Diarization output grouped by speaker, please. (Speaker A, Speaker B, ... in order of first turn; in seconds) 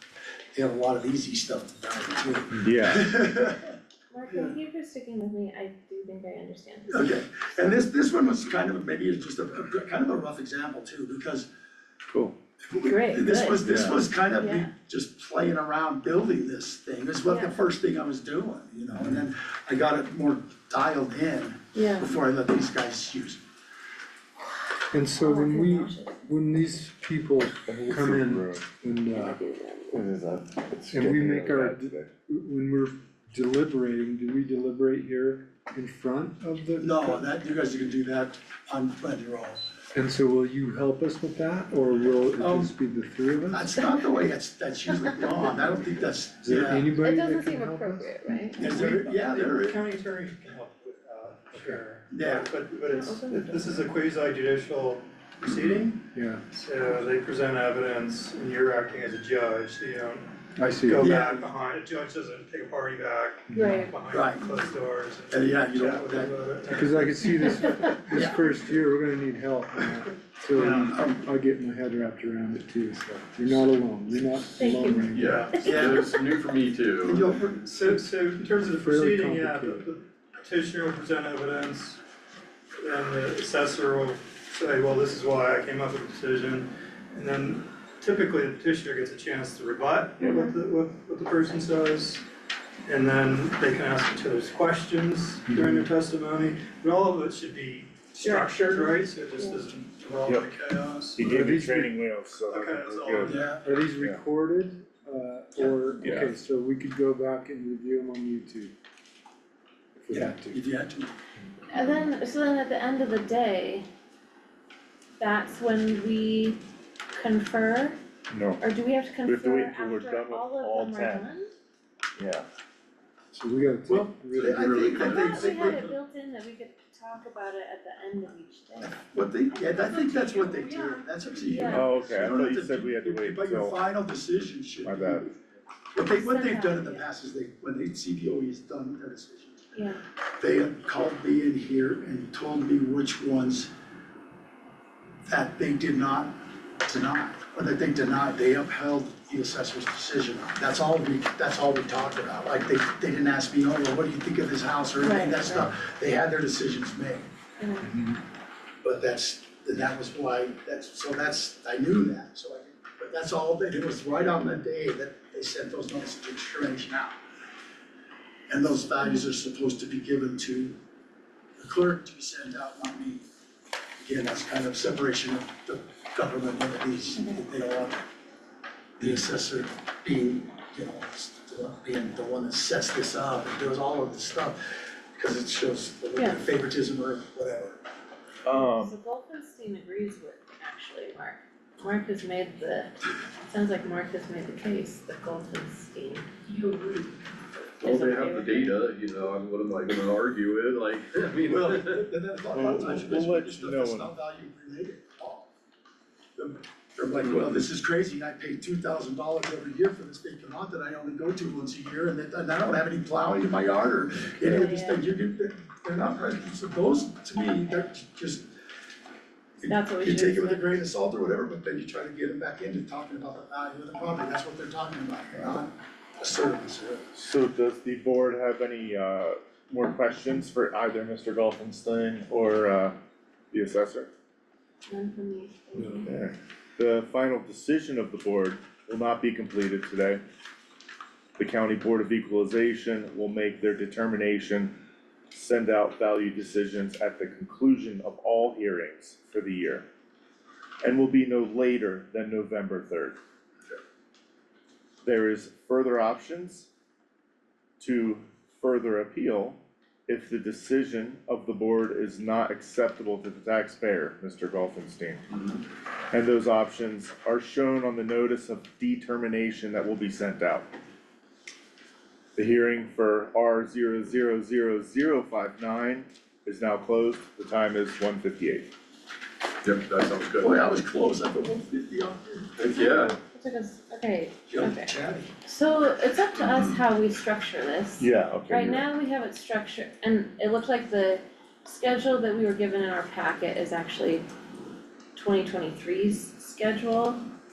Speaker A: 0.5-3.8, 6.9-11.5, 12.7-23.4, 36.8-39.6, 42.4-42.7, 43.5-46.9, 48.6-49.8, 52.1-52.5, 61.0-61.5, 64.1-64.6, 65.3-66.4, 68.1-68.4, 70.5-71.2, 75.6-76.1, 77.0-77.9, 103.2-103.6, 110.1-111.1, 123.9-125.9, 128.8-135.3, 135.9-139.7, 140.4-143.7, 145.3-157.3, 158.8-167.2, 168.5-170.8, 171.6-173.2, 174.0-178.1, 179.0-187.8, 201.5-205.5, 206.4-218.5, 219.6-227.1, 280.4-283.1, 284.5-285.3
Speaker B: 2.5-3.1, 12.1-12.4, 13.6-14.1, 27.7-28.6, 29.9-32.1, 100.3-100.5, 101.2-103.5, 106.0-106.3, 118.3-118.6, 119.2-121.3, 122.2-122.5, 131.7-133.8, 134.8-135.2, 188.4-188.9, 202.5-204.1, 227.2-233.0, 233.5-234.1, 235.9-240.2, 241.4-244.8, 245.3-249.9, 250.8-253.2, 255.0-256.7, 257.8-265.2, 266.1-270.7, 272.4-278.7, 288.0-288.9
Speaker C: 4.1-7.1, 12.8-13.7, 14.3-14.7, 17.3-17.6, 21.7-22.1, 25.1-26.2, 29.1-29.9, 47.0-48.9, 52.8-53.6, 63.5-63.9, 74.6-75.9, 90.2-90.6, 98.2-99.6, 111.7-113.9, 115.2-116.6, 117.1-118.0, 118.6-121.5, 124.9-129.0, 129.5-132.0, 136.1-137.1, 139.7-140.0, 155.0-155.7, 157.6-157.9, 177.2-177.4, 188.6-196.5, 197.8-198.8, 214.4-215.0, 219.7-220.8, 234.9-236.1, 282.8-294.3, 295.1-297.2
Speaker D: 24.9-29.4, 30.9-37.3, 40.0-43.8, 46.4-48.5, 51.5-51.8, 56.1-56.4, 60.5-61.1, 63.5-63.9, 66.7-75.5, 78.7-79.9, 95.5-95.9, 101.2-102.0, 103.2-108.7, 110.0-110.6, 123.3-125.0
Speaker E: 48.7-67.5, 75.2-75.7, 77.6-82.0, 82.8-92.3, 92.9-101.3, 102.5-103.3
Speaker F: 75.1-77.3, 124.4-125.9, 197.8-202.1, 207.2-207.5, 265.3-265.6, 279.6-280.6, 282.6-283.2, 286.4-286.8